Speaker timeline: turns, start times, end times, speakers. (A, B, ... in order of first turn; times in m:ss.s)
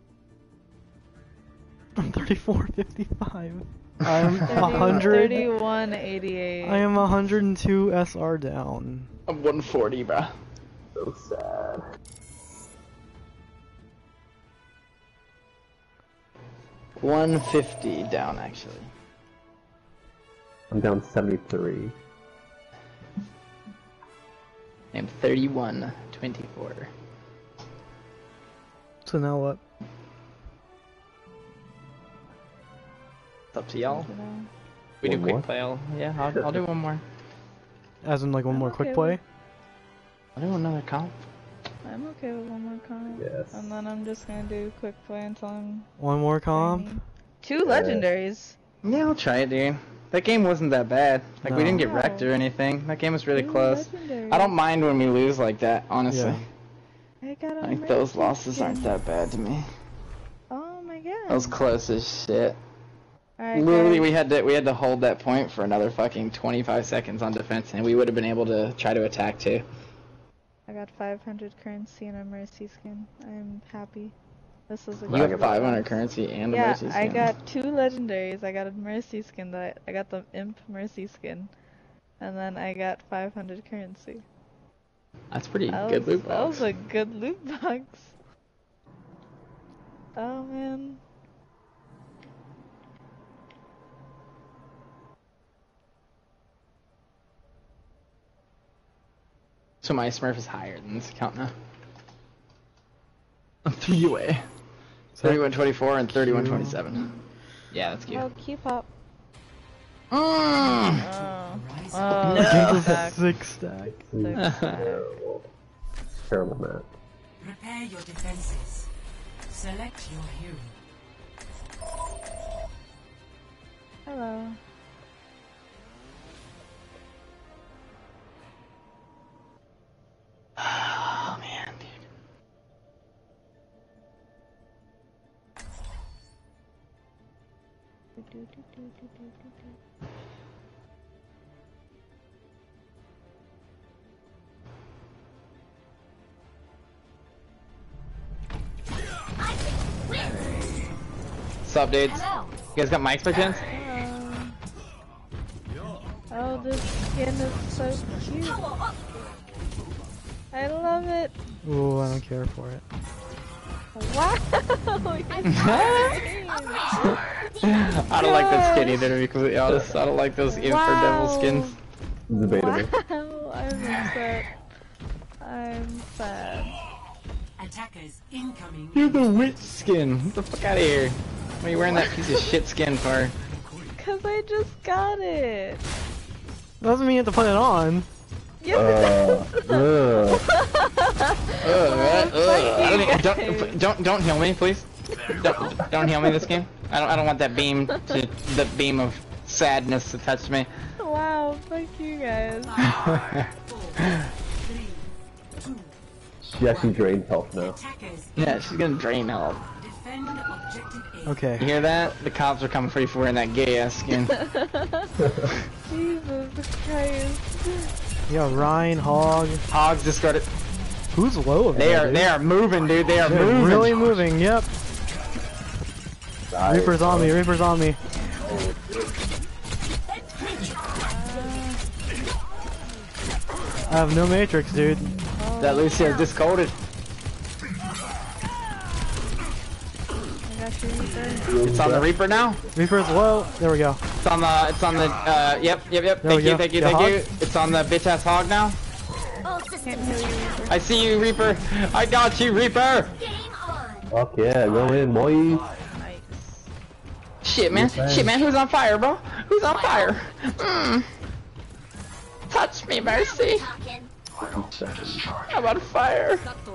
0:02.0-0:05.5 A
0:04.5-0:07.0 B
0:06.6-0:09.1 A
0:09.3-0:10.3 C
0:10.9-0:11.8 D
0:17.0-0:18.9 C
0:20.7-0:21.9 D
0:24.9-0:26.9 C
0:29.0-0:29.6 A
0:33.5-0:34.1 C
0:33.8-0:34.5 B
0:35.0-0:35.4 D
0:35.0-0:37.0 C
0:38.0-0:39.2 A
0:38.5-0:39.2 B
0:40.4-0:41.1 C
0:41.8-0:45.9 B
0:43.2-0:43.6 D
0:46.0-0:46.9 A
0:46.5-0:48.6 B
0:47.6-0:48.0 D
0:48.8-0:56.4 C
0:51.4-0:51.8 A
0:51.7-0:52.3 B
0:53.3-0:54.5 B
0:56.1-0:56.4 A
0:57.2-0:59.0 B
0:57.6-0:59.6 C
1:00.5-1:01.6 B
1:01.3-1:02.6 C
1:03.4-1:04.1 B
1:03.5-1:09.6 C
1:10.7-1:14.1 B
1:14.7-1:21.5 B
1:15.1-1:15.8 D
1:15.1-1:17.3 C
1:22.2-1:24.2 B
1:25.3-1:26.6 C
1:25.7-1:28.1 B
1:30.2-1:31.0 B
1:39.8-1:41.5 C
1:43.6-1:44.4 C
1:45.2-1:47.1 C
1:46.1-1:46.8 A
1:47.7-1:48.2 C
1:48.1-1:48.9 B
1:50.1-1:51.0 C
1:50.7-1:52.2 E
1:50.9-1:53.2 B
1:52.2-1:53.9 A
1:52.3-1:53.0 C
1:54.0-1:55.5 D
1:54.1-1:55.1 B
1:54.4-1:54.8 C
1:56.2-1:56.9 D
1:57.4-1:58.9 E
1:59.5-2:00.8 E
2:04.0-2:04.6 B
2:10.6-2:11.9 C
2:18.2-2:19.5 B
2:31.6-2:33.6 C
2:33.6-2:34.6 B
2:36.3-2:38.7 B
2:40.5-2:41.3 B
2:41.6-2:42.8 A
2:43.9-2:47.1 B
2:47.6-2:51.7 C
2:48.2-2:49.2 B
2:49.7-2:50.0 D
2:50.5-2:51.8 B
2:52.3-2:52.9 D
2:52.5-2:54.5 B
2:55.4-2:56.8 B
2:57.6-3:00.0 E
2:58.9-3:03.3 C
3:04.0-3:05.8 B
3:06.8-3:08.0 A
3:08.6-3:13.8 B
3:08.7-3:10.4 D
3:11.6-3:20.7 C
3:21.0-3:22.8 B
3:22.6-3:25.9 E
3:22.8-3:24.2 C
3:26.4-3:27.8 D
3:26.6-3:28.7 E
3:28.4-3:29.6 C
3:29.6-3:31.4 E
3:31.2-3:31.7 A
3:31.6-3:34.4 C
3:34.5-3:35.1 B
3:35.9-3:37.9 B
3:38.3-3:39.6 A
3:39.7-3:40.5 C
3:41.1-3:42.2 A
3:41.7-3:42.3 D
3:41.7-3:44.1 C
3:43.2-3:44.7 A
3:46.5-3:47.4 D
3:46.6-3:48.0 A
3:48.4-3:49.1 D
3:51.0-3:51.8 B
3:53.9-3:55.1 A
3:55.4-3:56.2 B
3:55.6-3:56.8 C
4:00.4-4:01.6 B
4:01.4-4:02.1 D
4:01.6-4:02.6 C
4:02.7-4:04.0 A
4:04.2-4:08.8 C
4:06.2-4:07.2 A
4:09.7-4:10.9 B
4:10.7-4:13.2 C
4:14.1-4:15.7 D
4:15.8-4:16.7 B
4:17.4-4:21.1 C
4:17.7-4:18.3 D
4:22.5-4:23.8 C
4:24.4-4:25.4 D
4:25.5-4:26.4 C